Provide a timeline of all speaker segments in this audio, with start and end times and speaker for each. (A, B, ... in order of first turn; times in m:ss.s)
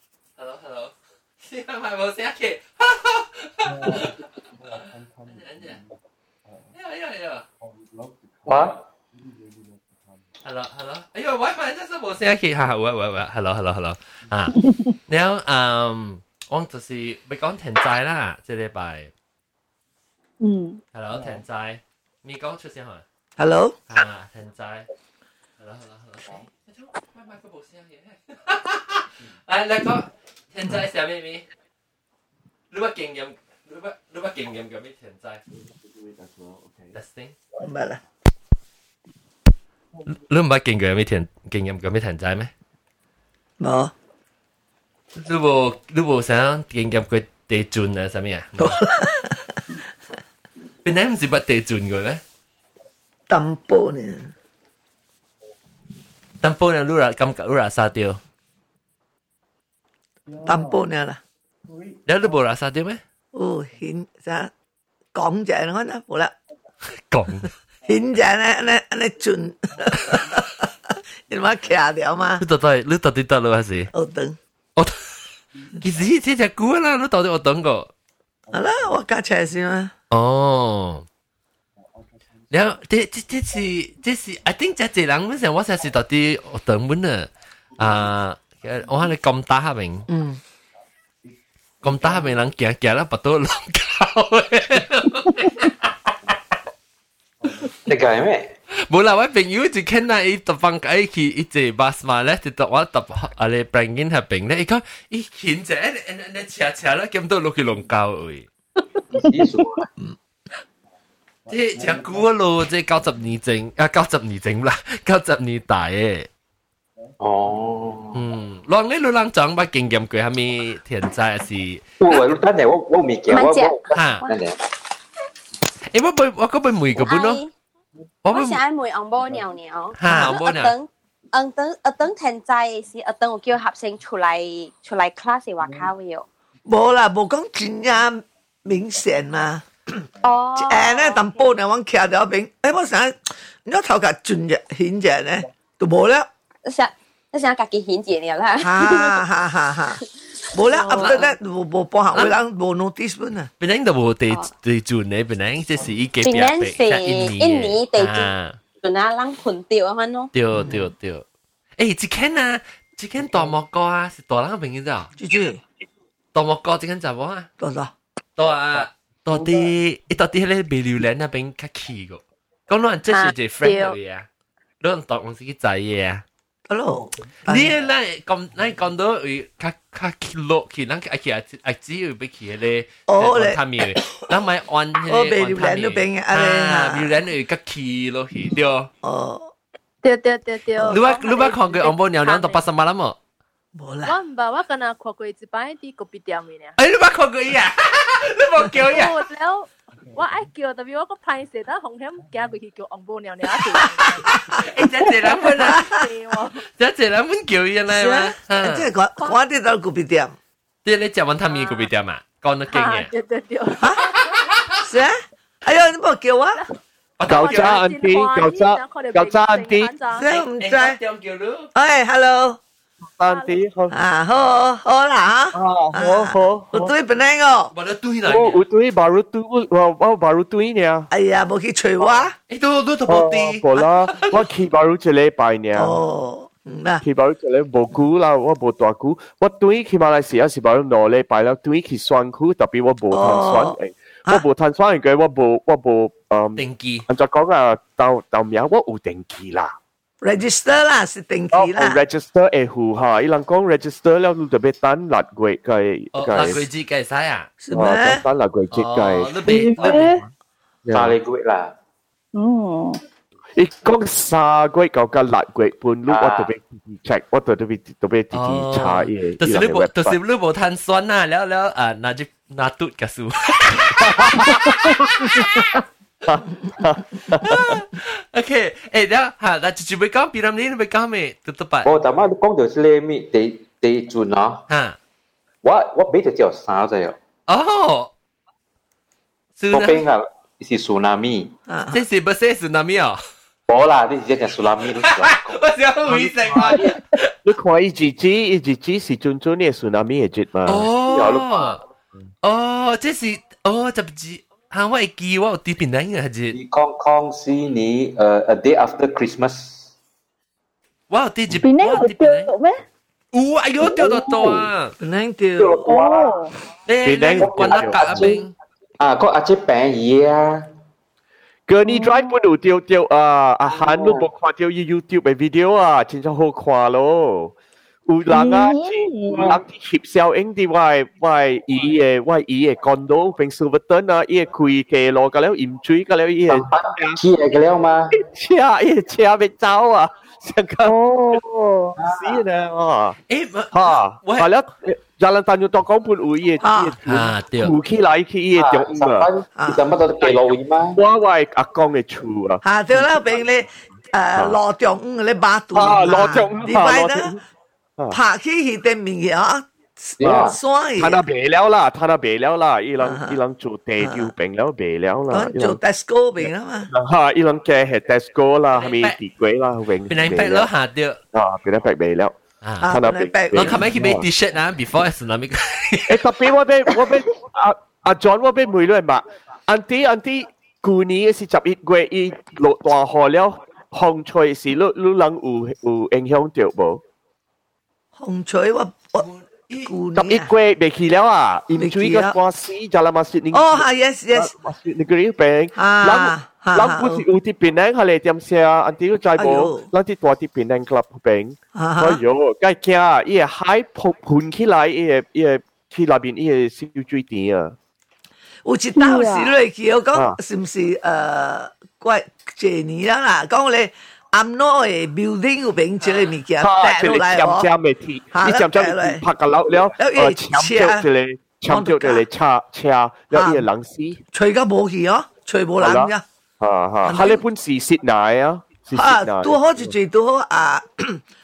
0:00.4-0:05.8 A
0:03.6-0:06.8 B
0:06.7-0:07.4 A
0:07.6-0:10.3 B
0:08.5-0:08.8 C
0:10.4-0:19.1 A
0:14.6-0:14.9 D
0:20.4-0:20.8 D
0:20.9-0:23.0 A
0:21.1-0:21.4 B
0:23.4-0:23.8 E
0:23.9-0:24.9 A
0:25.6-0:31.4 A
0:26.2-0:26.5 B
0:32.7-0:35.4 A
0:35.5-0:37.0 B
0:36.9-0:37.4 A
0:37.6-0:38.0 E
0:39.9-0:40.2 B
0:40.1-0:42.5 A
0:43.6-0:43.9 E
0:45.1-0:48.9 A
0:48.6-0:49.4 E
0:50.8-0:52.2 A
0:53.3-0:54.3 E
0:56.4-0:58.2 A
1:00.3-1:00.9 B
1:00.5-1:01.2 E
1:01.7-1:02.4 B
1:02.1-1:03.0 A
1:03.3-1:04.5 E
1:05.2-1:06.3 E
1:07.1-1:07.5 A
1:07.9-1:10.7 E
1:09.7-1:10.5 B
1:11.3-1:12.4 E
1:11.3-1:11.8 B
1:12.4-1:13.9 A
1:13.9-1:14.4 E
1:15.5-1:16.1 B
1:15.8-1:17.9 A
1:18.5-1:19.1 B
1:18.5-1:19.9 E
1:20.1-1:21.1 A
1:21.8-1:23.9 B
1:22.5-1:30.1 A
1:27.8-1:29.1 B
1:30.1-1:30.4 E
1:31.2-1:32.5 B
1:31.8-1:35.8 A
1:37.4-1:37.8 B
1:37.9-1:38.5 C
1:38.9-1:48.5 A
1:49.1-1:49.9 C
1:51.4-1:52.3 B
1:51.5-1:56.3 A
1:57.2-1:58.2 C
1:58.1-2:01.8 A
2:02.0-2:04.6 C
2:03.3-2:04.4 F
2:03.9-2:04.2 A
2:05.9-2:07.4 A
2:07.0-2:07.5 F
2:08.2-2:08.6 A
2:08.3-2:16.3 F
2:09.2-2:09.5 B
2:10.0-2:10.7 A
2:15.6-2:15.9 B
2:16.7-2:20.0 E
2:18.7-2:19.5 B
2:20.2-2:21.3 F
2:20.6-2:26.3 E
2:26.6-2:29.2 F
2:28.6-2:30.0 E
2:30.5-2:33.5 E
2:30.7-2:31.2 F
2:30.9-2:31.4 A
2:33.6-2:38.6 A
2:36.2-2:40.3 F
2:40.3-2:41.2 A
2:40.5-2:40.9 E
2:41.8-2:45.1 A
2:43.2-2:43.6 B
2:45.2-2:45.6 E
2:46.3-2:47.5 A
2:47.6-2:47.9 E
2:48.4-2:54.3 A
2:48.7-2:49.7 B
2:53.1-2:54.0 G
2:54.8-2:56.2 A
2:56.7-2:57.8 E
2:56.9-2:57.9 B
2:57.5-3:08.9 A
3:03.1-3:04.2 E
3:05.1-3:07.2 E
3:09.0-3:09.5 E
3:10.0-3:12.6 G
3:10.9-3:13.2 A
3:13.8-3:14.2 E
3:14.0-3:16.8 G
3:16.8-3:19.2 A
3:18.8-3:24.4 G
3:20.0-3:20.5 B
3:22.2-3:22.6 B
3:23.7-3:24.5 E
3:24.6-3:25.9 A
3:25.3-3:26.6 G
3:25.6-3:26.0 E
3:26.8-3:28.9 A
3:27.9-3:30.4 E
3:30.8-3:33.1 A
3:31.5-3:31.9 G
3:32.7-3:34.5 G
3:33.8-3:34.1 E
3:34.5-3:34.8 A
3:34.8-3:36.6 E
3:37.2-3:37.8 A
3:37.3-3:39.9 H
3:37.3-3:40.3 G
3:40.1-3:41.0 E
3:40.2-3:41.7 A
3:41.8-3:42.6 E
3:43.2-3:43.9 H
3:43.3-3:43.6 G
3:43.9-3:47.7 E
3:45.5-3:46.9 H
3:47.7-3:48.6 A
3:48.3-3:51.1 H
3:51.1-3:52.4 E
3:52.5-3:54.4 A
3:53.1-3:56.0 H
3:55.8-3:57.0 E
3:57.0-4:09.7 H
4:03.1-4:03.8 E
4:06.6-4:07.1 A
4:10.2-4:12.0 E
4:11.5-4:16.7 H
4:16.1-4:17.5 A
4:17.6-4:18.2 E
4:17.7-4:20.1 H
4:18.7-4:20.1 A
4:19.4-4:20.2 D
4:20.8-4:21.2 H
4:20.9-4:21.7 C
4:22.4-4:23.0 D
4:23.6-4:30.2 H
4:26.1-4:26.5 C
4:28.3-4:35.8 A
4:34.0-4:37.8 H
4:37.4-4:41.9 A
4:41.8-4:44.6 C
4:44.7-4:45.0 A
4:45.6-4:47.2 C
4:47.5-4:48.1 A
4:49.6-4:50.0 A
4:49.7-4:51.5 C
4:51.7-4:52.0 E
4:51.9-4:53.2 A
4:53.7-4:55.6 C
4:55.0-4:57.3 A
4:56.1-4:56.9 H
4:57.4-5:00.9 H
5:00.7-5:01.8 A
5:01.1-5:01.8 C
5:02.4-5:06.6 A
5:06.5-5:09.9 C
5:11.1-5:12.5 A
5:11.6-5:12.8 D
5:13.3-5:14.9 A
5:13.8-5:14.7 H
5:15.0-5:15.9 E
5:15.6-5:16.3 C
5:15.8-5:16.5 D
5:16.9-5:18.5 A
5:17.0-5:18.3 H
5:17.4-5:18.4 C
5:19.0-5:20.6 C
5:21.7-5:27.6 H
5:21.8-5:22.3 D
5:23.7-5:24.2 C
5:28.1-5:37.2 H
5:28.3-5:29.6 D
5:36.5-5:38.1 C
5:38.1-5:41.4 H
5:40.8-5:42.0 D
5:42.0-5:42.4 C
5:42.0-5:43.2 H
5:43.3-5:44.5 A
5:43.7-5:49.3 H
5:46.6-5:47.0 E
5:47.1-5:47.8 A
5:48.6-5:51.0 C
5:49.6-5:49.8 E
5:50.9-5:53.1 H
5:52.6-5:57.3 E
5:55.7-5:57.4 H
5:58.1-6:01.2 E
6:00.2-6:00.6 C
6:00.2-6:05.8 H
6:03.0-6:03.4 E
6:04.0-6:04.3 E
6:05.3-6:06.9 E
6:06.9-6:10.7 H
6:08.8-6:09.2 A
6:10.1-6:11.2 A
6:11.3-6:14.3 H
6:12.6-6:12.9 A
6:12.8-6:13.8 E
6:13.5-6:16.2 A
6:16.1-6:27.0 H
6:28.2-6:29.3 E
6:29.2-6:29.9 A
6:29.9-6:30.5 E
6:30.2-6:47.8 H
6:31.8-6:32.4 E
6:33.5-6:34.5 E
6:35.8-6:37.2 E
6:39.4-6:39.9 E
6:41.8-6:42.2 E
6:48.6-6:57.7 E
6:49.0-6:49.6 D
6:56.0-6:56.3 A
6:56.6-7:04.2 H
6:58.3-6:59.2 E
7:00.0-7:01.1 E
7:01.7-7:02.2 E
7:03.3-7:03.7 E
7:04.3-7:06.2 E
7:05.8-7:09.9 H
7:07.0-7:07.4 E
7:08.9-7:11.2 E